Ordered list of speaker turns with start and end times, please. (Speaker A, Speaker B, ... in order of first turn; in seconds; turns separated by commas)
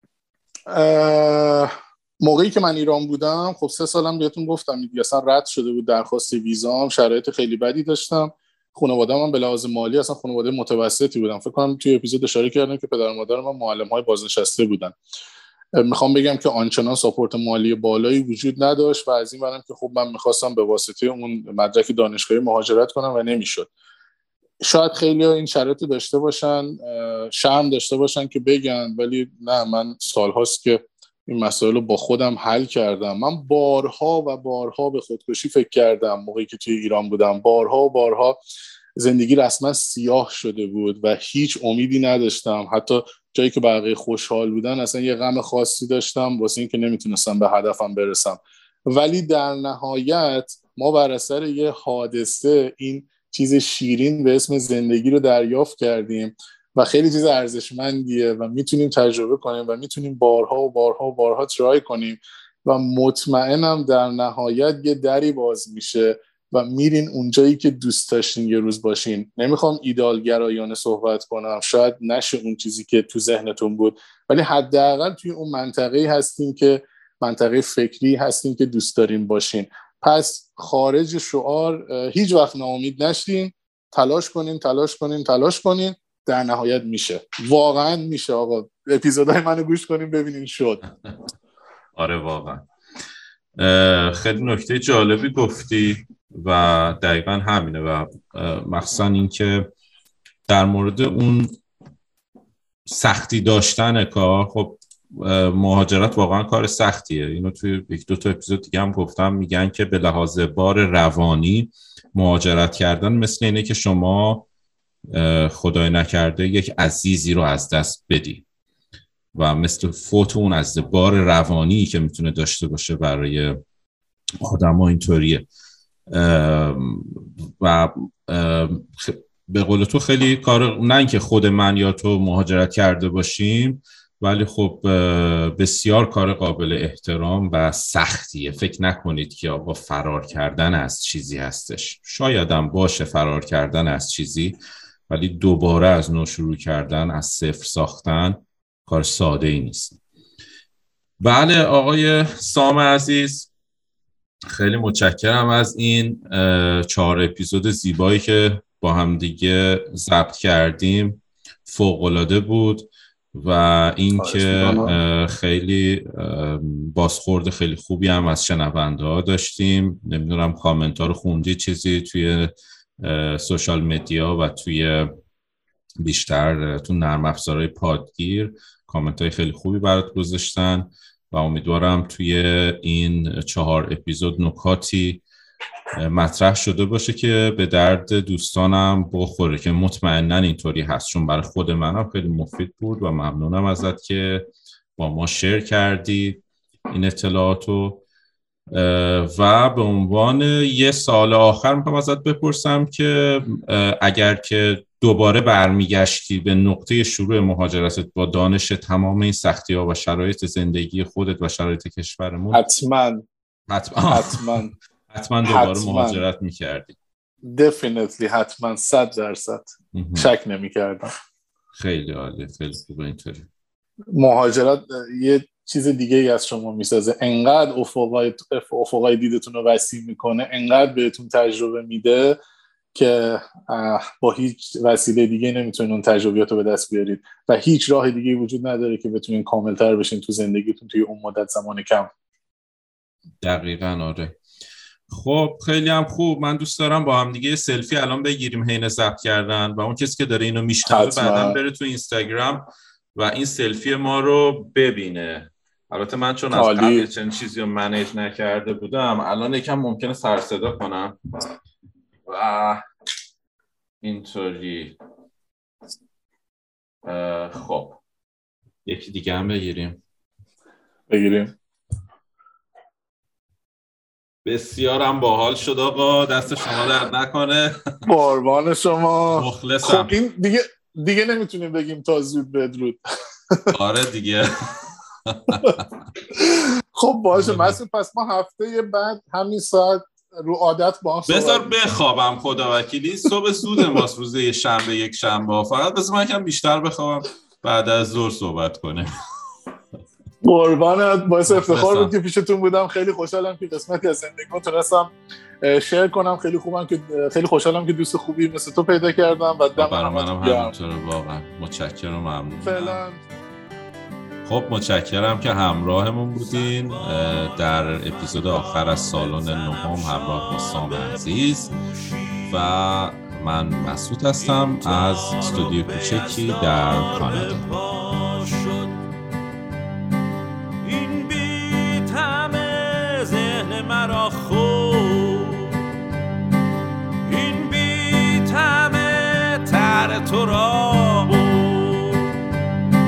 Speaker A: 0.7-14.9, Speaker A: 15.8-23.7, Speaker A: 24.6-38.4, Speaker A: 39.0-90.8, Speaker B: 92.0-92.7, Speaker B: 93.6-99.7, Speaker B: 100.5-101.6, Speaker B: 102.8-114.5, Speaker B: 115.1-118.4, Speaker B: 119.3-123.6, Speaker B: 124.4-125.5, Speaker B: 126.1-144.6, Speaker B: 145.1-150.0, Speaker B: 151.2-153.5, Speaker B: 154.5-175.1, Speaker A: 164.2-165.0, Speaker B: 176.0-185.2, Speaker B: 186.0-198.0, Speaker B: 198.7-212.6, Speaker A: 212.5-213.2, Speaker B: 213.7-216.9, Speaker A: 214.0-214.7, Speaker A: 215.4-216.2, Speaker A: 217.4-221.1, Speaker B: 219.9-220.3, Speaker B: 221.7-223.5, Speaker A: 224.1-232.4, Speaker A: 232.9-242.1, Speaker B: 243.4-244.4, Speaker B: 245.1-252.6, Speaker A: 250.8-251.6, Speaker B: 253.1-261.2, Speaker A: 256.5-257.1, Speaker B: 262.3-262.8, Speaker B: 264.0-264.9, Speaker B: 267.0-268.0, Speaker B: 268.8-270.0, Speaker A: 271.1-271.5, Speaker B: 274.4-278.0, Speaker A: 278.1-283.0, Speaker B: 279.3-280.1, Speaker B: 283.7-285.9, Speaker A: 286.4-291.8, Speaker B: 287.3-287.8, Speaker B: 291.3-299.1, Speaker A: 300.4-310.7, Speaker B: 301.4-302.1, Speaker B: 309.8-313.0, Speaker A: 312.6-313.2, Speaker B: 314.4-321.7, Speaker C: 316.4-322.6, Speaker B: 322.5-327.7, Speaker C: 324.4-329.0, Speaker C: 330.8-335.8, Speaker C: 337.2-342.3